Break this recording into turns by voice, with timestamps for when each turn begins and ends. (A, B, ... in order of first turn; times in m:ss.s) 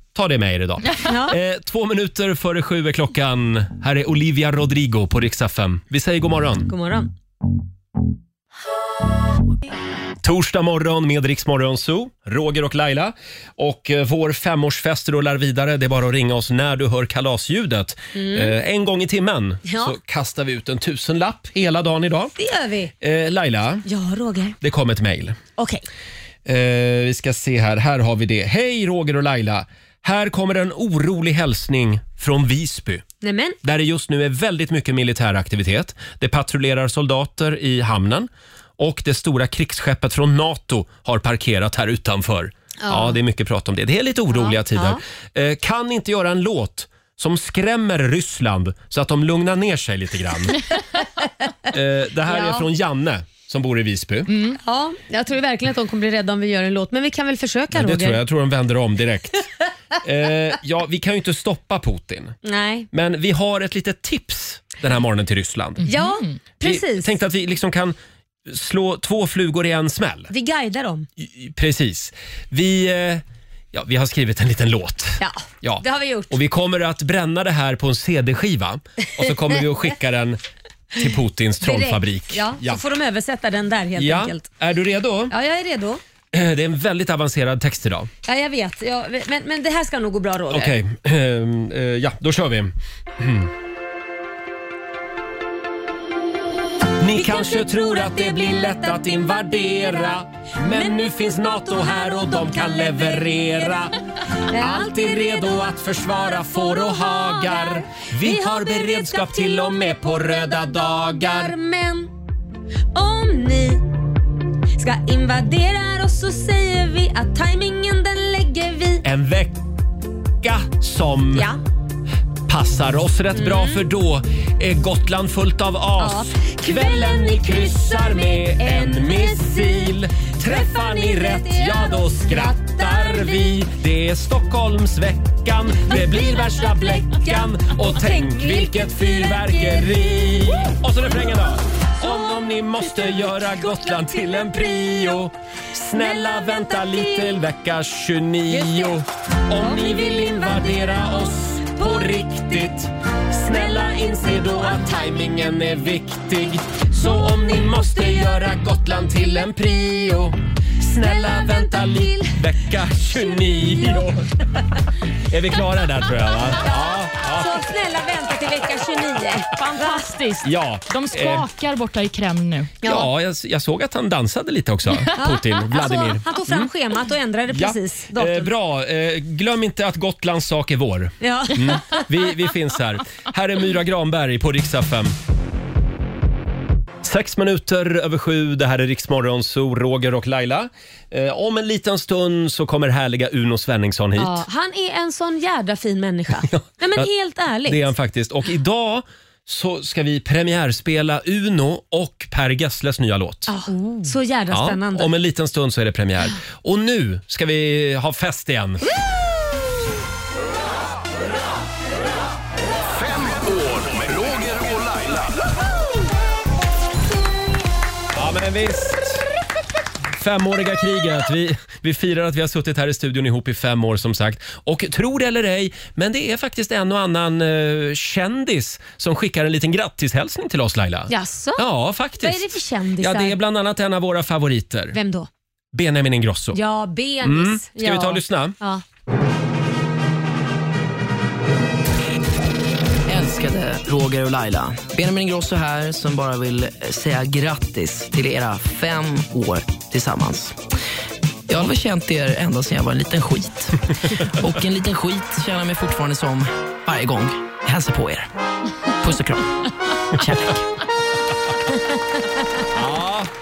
0:00.1-0:06.7 A
0:01.0-0:01.4 B
0:06.7-0:07.1 B
0:10.2-0:22.3 A
0:18.1-0:18.5 B
0:19.7-0:19.9 B
0:22.4-0:22.9 B
0:23.0-0:23.8 A
0:23.8-0:24.6 B
0:24.6-0:25.4 A
0:25.6-0:25.8 B
0:26.4-0:33.0 A
0:33.2-0:33.6 B
0:33.6-0:50.6 A
0:42.8-0:43.2 B
0:44.7-0:45.0 B
0:51.7-0:54.3 A
0:52.3-0:52.6 B
0:54.3-0:54.6 C
0:54.6-0:58.2 B
0:57.7-0:59.4 A
1:00.0-1:02.4 A
1:02.4-1:02.9 B
1:02.9-1:05.9 A
1:05.8-1:06.3 C
1:05.8-1:07.1 B
1:06.6-1:08.0 A
1:08.5-1:10.3 A
1:10.3-1:11.1 B
1:11.2-1:20.4 A
1:15.2-1:16.3 B
1:21.0-1:22.8 A
1:21.6-1:24.5 B
1:24.0-1:25.3 A
1:25.3-1:26.0 B
1:26.3-1:28.1 A
1:28.2-1:30.7 B
1:30.5-1:33.5 A
1:37.0-1:43.9 A
1:37.1-1:43.7 B
1:44.5-1:52.1 B
1:44.5-1:51.5 A
1:52.9-1:53.9 B
1:54.8-1:59.0 B
1:59.0-1:59.6 A
2:00.4-2:01.5 A
2:01.3-2:01.6 B
2:02.5-2:44.3 A
2:03.3-2:03.8 B
2:06.0-2:13.6 B
2:15.9-2:20.7 B
2:22.0-2:24.9 B
2:25.9-2:27.4 B
2:28.5-2:29.0 B
2:29.6-2:31.2 B
2:31.8-2:32.4 B
2:41.0-2:42.4 B
2:43.1-2:44.0 B
2:45.3-2:47.7 A
2:46.6-2:50.0 B
2:49.6-2:52.7 C
2:50.4-2:51.4 A
2:52.8-2:53.1 B
2:52.8-2:56.7 A
2:55.1-2:58.5 B
2:57.5-3:05.1 A
3:01.2-3:02.0 B
3:07.0-3:14.4 A
3:14.2-3:17.9 B
3:16.5-3:17.1 A
3:17.6-3:23.6 A
3:23.5-3:25.1 B
3:24.5-3:28.8 A
3:32.8-3:35.4 D
3:38.1-3:39.2 A
3:40.2-3:52.4 A
3:51.1-3:51.6 B
3:52.2-3:53.3 B
3:53.0-3:55.0 A
3:54.9-3:55.3 B
3:55.7-3:56.6 A
3:56.5-3:58.8 B
3:57.2-3:58.6 A
4:03.0-4:10.6 E
4:11.5-4:13.8 E
4:14.4-4:18.3 E
4:19.0-4:19.4 E
4:20.2-4:20.6 E
4:21.7-4:22.0 B
4:22.7-4:23.3 A